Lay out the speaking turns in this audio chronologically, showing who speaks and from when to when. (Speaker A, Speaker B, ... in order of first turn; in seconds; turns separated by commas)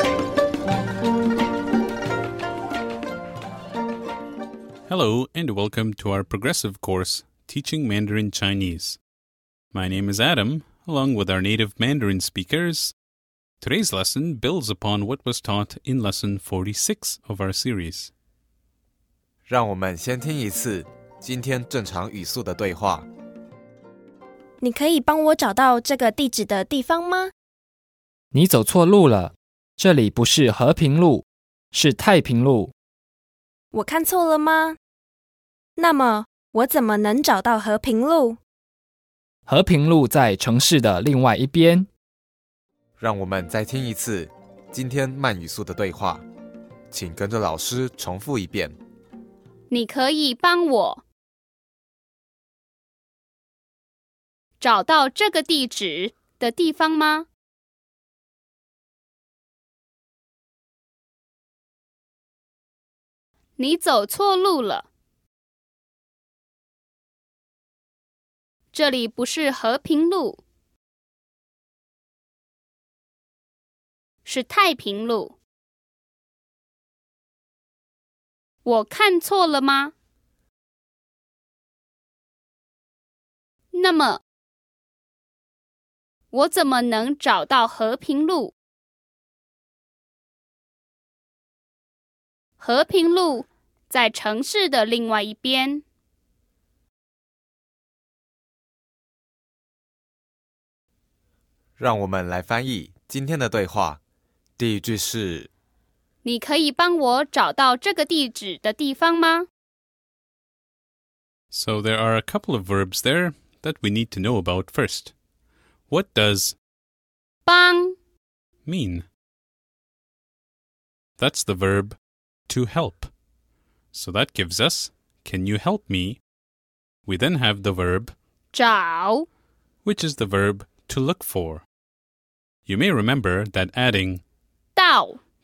Speaker A: 4.9-9.0, Speaker A: 9.7-12.9, Speaker A: 13.6-18.1, Speaker B: 19.5-23.1, Speaker C: 24.6-27.3, Speaker D: 28.3-32.7, Speaker C: 33.7-34.8, Speaker C: 35.8-38.4, Speaker D: 39.5-41.9, Speaker B: 43.0-46.2, Speaker B: 46.9-48.8, Speaker E: 49.7-51.0, Speaker E: 54.6-57.3, Speaker E: 63.6-64.9, Speaker E: 68.7-70.4, Speaker E: 74.2-75.3, Speaker E: 78.7-79.9, Speaker E: 83.7-84.2, Speaker E: 86.3-88.5, Speaker E: 92.6-95.8, Speaker B: 101.8-104.0, Speaker B: 104.6-105.5, Speaker E: 106.2-109.5, Speaker A: 111.5-115.1, Speaker A: 115.9-116.6, Speaker E: 117.5-118.0, Speaker A: 118.7-119.1, Speaker A: 121.2-122.0, Speaker A: 122.5-123.1, Speaker A: 123.9-126.2, Speaker A: 127.0-128.1, Speaker E: 128.5-129.3, Speaker A: 129.8-131.6, Speaker A: 132.7-134.2, Speaker E: 134.8-135.2